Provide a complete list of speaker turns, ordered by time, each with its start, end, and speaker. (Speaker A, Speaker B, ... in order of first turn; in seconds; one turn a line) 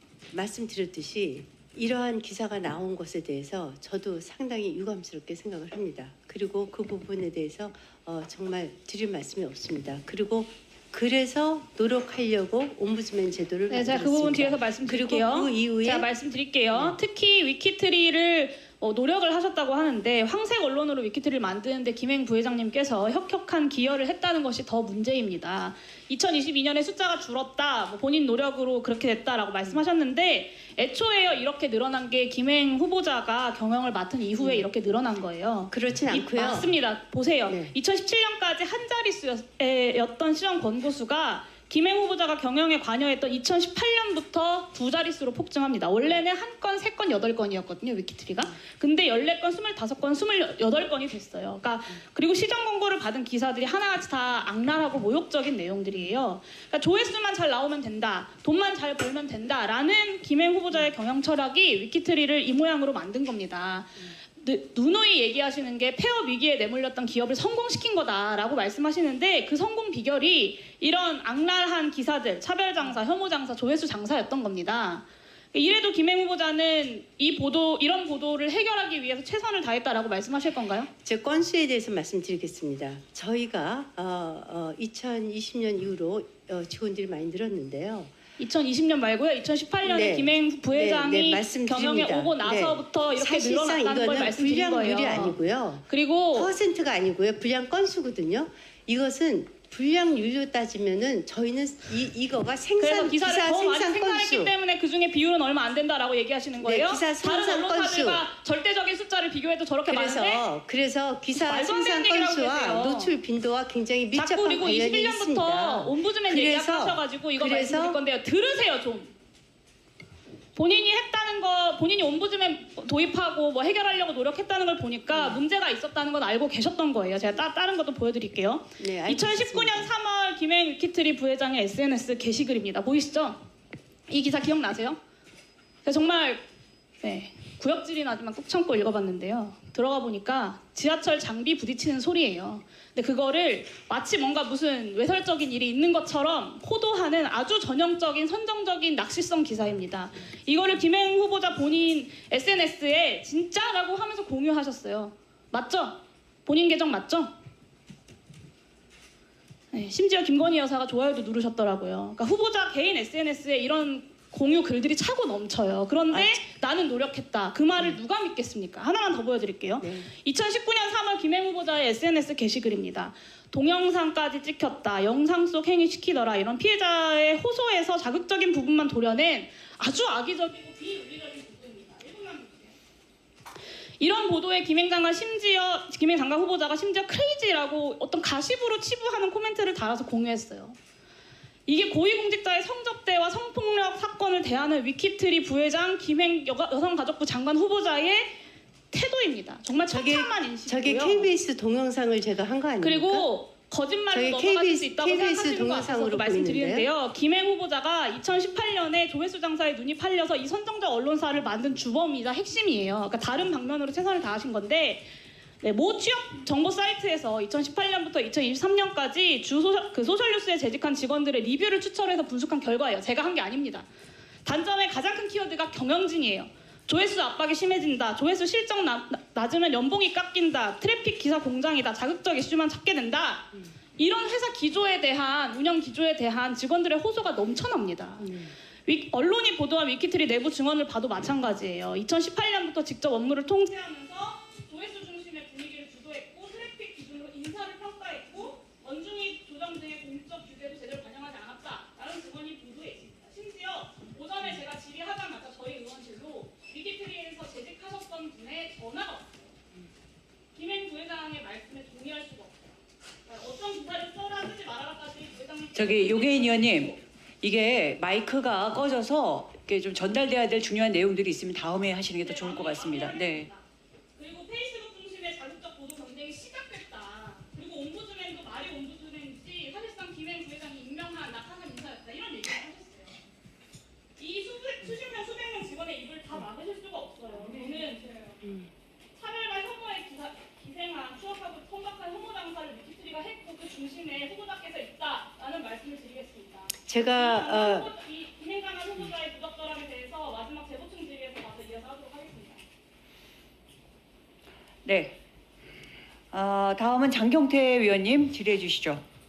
Speaker A: 0.3-16.1
Speaker B: 13.7-80.9
Speaker A: 16.7-16.9
Speaker A: 34.4-34.7
Speaker A: 35.7-36.7
Speaker A: 37.5-37.7
Speaker A: 81.0-88.1
Speaker B: 88.4-95.3
Speaker A: 89.8-104.5
Speaker B: 95.9-96.5
Speaker B: 102.8-110.4
Speaker A: 106.6-108.2
Speaker A: 109.9-118.0
Speaker B: 111.3-113.1
Speaker B: 114.1-119.1
Speaker B: 120.5-133.4
Speaker A: 125.1-125.4
Speaker A: 128.8-129.9
Speaker B: 134.1-135.0
Speaker B: 135.8-136.4
Speaker B: 137.0-157.3
Speaker B: 159.7-182.8
Speaker A: 166.1-166.4
Speaker A: 169.8-170.1
Speaker B: 184.0-190.8
Speaker B: 191.7-198.4
Speaker B: 198.9-201.3
Speaker A: 199.9-203.3
Speaker B: 202.8-215.1
Speaker A: 204.1-206.9
Speaker B: 215.6-223.9
Speaker B: 224.4-259.5
Speaker A: 238.2-238.5
Speaker B: 260.5-262.7
Speaker B: 263.2-267.0
Speaker C: 265.7-273.5
Speaker B: 272.2-273.6
Speaker B: 274.1-283.2
Speaker B: 284.2-288.3
Speaker A: 288.4-288.7
Speaker B: 289.1-302.6
Speaker A: 296.9-297.9
Speaker C: 304.8-305.1
Speaker C: 306.3-309.0